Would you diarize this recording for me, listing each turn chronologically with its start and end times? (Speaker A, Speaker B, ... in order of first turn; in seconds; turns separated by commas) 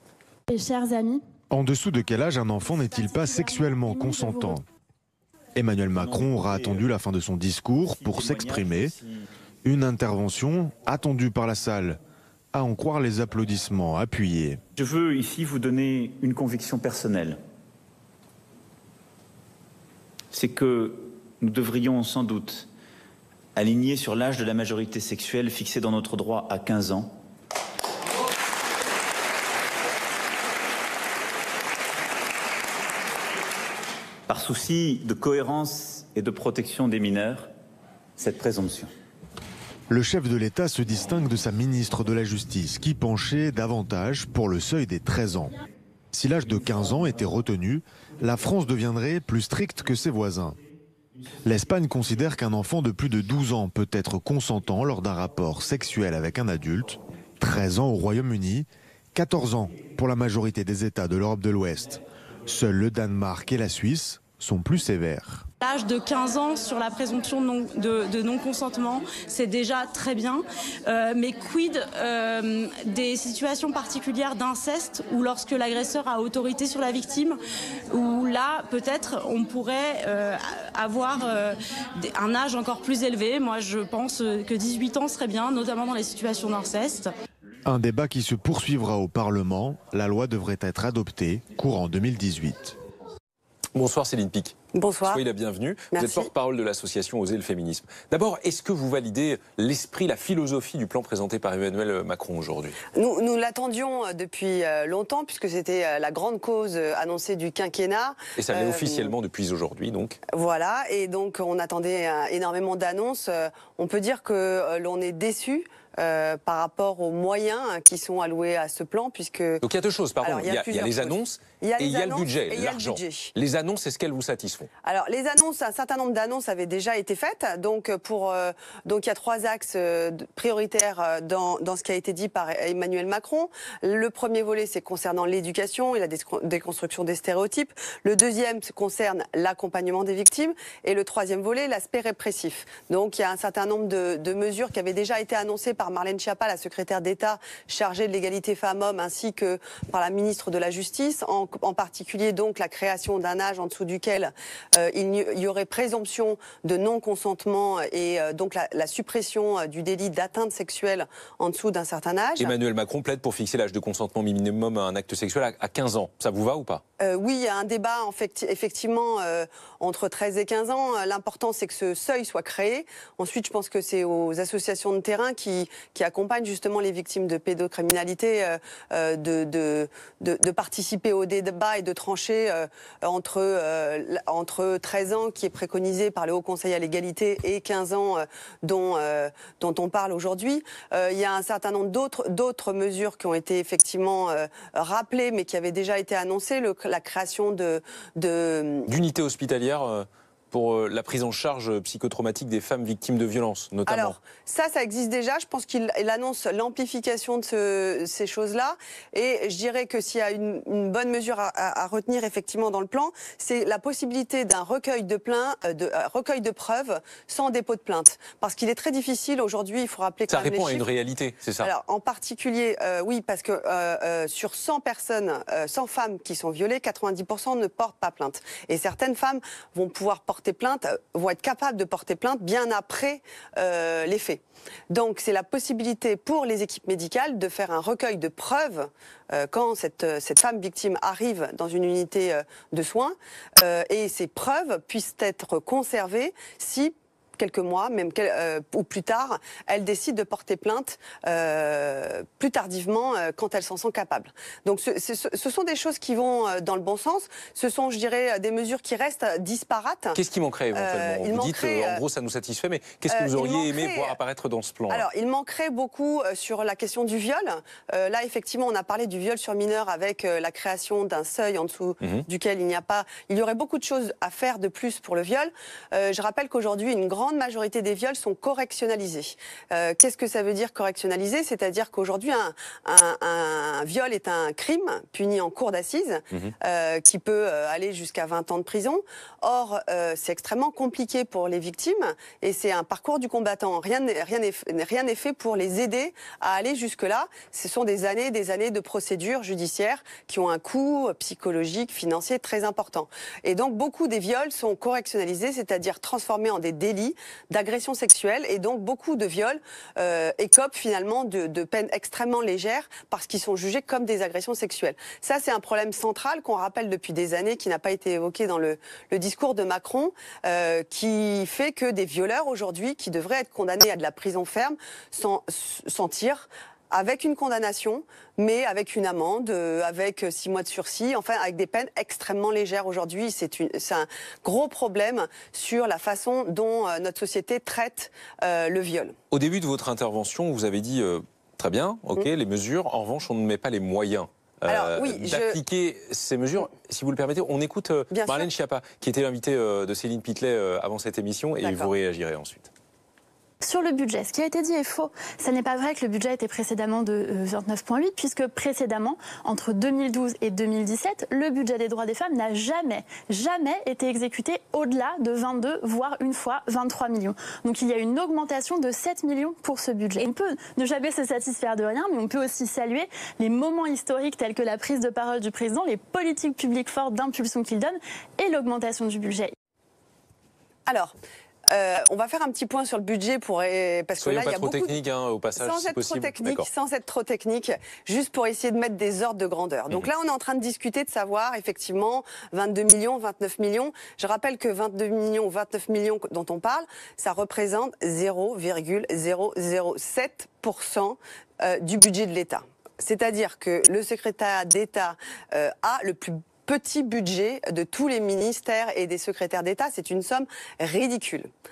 Speaker A: 0.5-1.2, Speaker B: 1.5-4.6, Speaker A: 3.9-4.5, Speaker B: 5.5-8.9, Speaker C: 5.9-6.9, Speaker C: 7.8-9.2, Speaker B: 9.6-12.0, Speaker B: 12.5-14.6, Speaker C: 14.8-17.4, Speaker C: 20.3-22.7, Speaker C: 23.6-27.1, Speaker C: 34.3-37.5, Speaker C: 38.2-38.9, Speaker B: 39.9-45.6, Speaker B: 46.1-50.6, Speaker B: 51.4-65.5, Speaker D: 65.6-77.4, Speaker D: 77.9-87.1, Speaker B: 87.7-92.8, Speaker E: 93.7-102.8, Speaker F: 94.7-95.2, Speaker F: 95.9-96.3, Speaker F: 102.9-109.1, Speaker E: 108.3-110.2, Speaker F: 110.3-119.6, Speaker E: 119.6-124.7, Speaker F: 120.2-123.3, Speaker F: 124.8-162.5, Speaker E: 162.4-166.8, Speaker F: 167.0-198.9, Speaker E: 198.9-204.2, Speaker F: 203.9-220.8, Speaker E: 220.3-221.7, Speaker F: 221.6-260.2, Speaker E: 260.1-265.0, Speaker F: 260.7-262.0, Speaker F: 263.1-264.2, Speaker F: 264.9-339.1, Speaker E: 339.3-352.7, Speaker F: 344.7-345.6, Speaker F: 348.1-348.5, Speaker F: 351.6-351.9, Speaker A: 353.6-379.5, Speaker F: 380.9-381.1, Speaker F: 381.7-385.0, Speaker E: 384.2-386.7, Speaker F: 385.5-411.5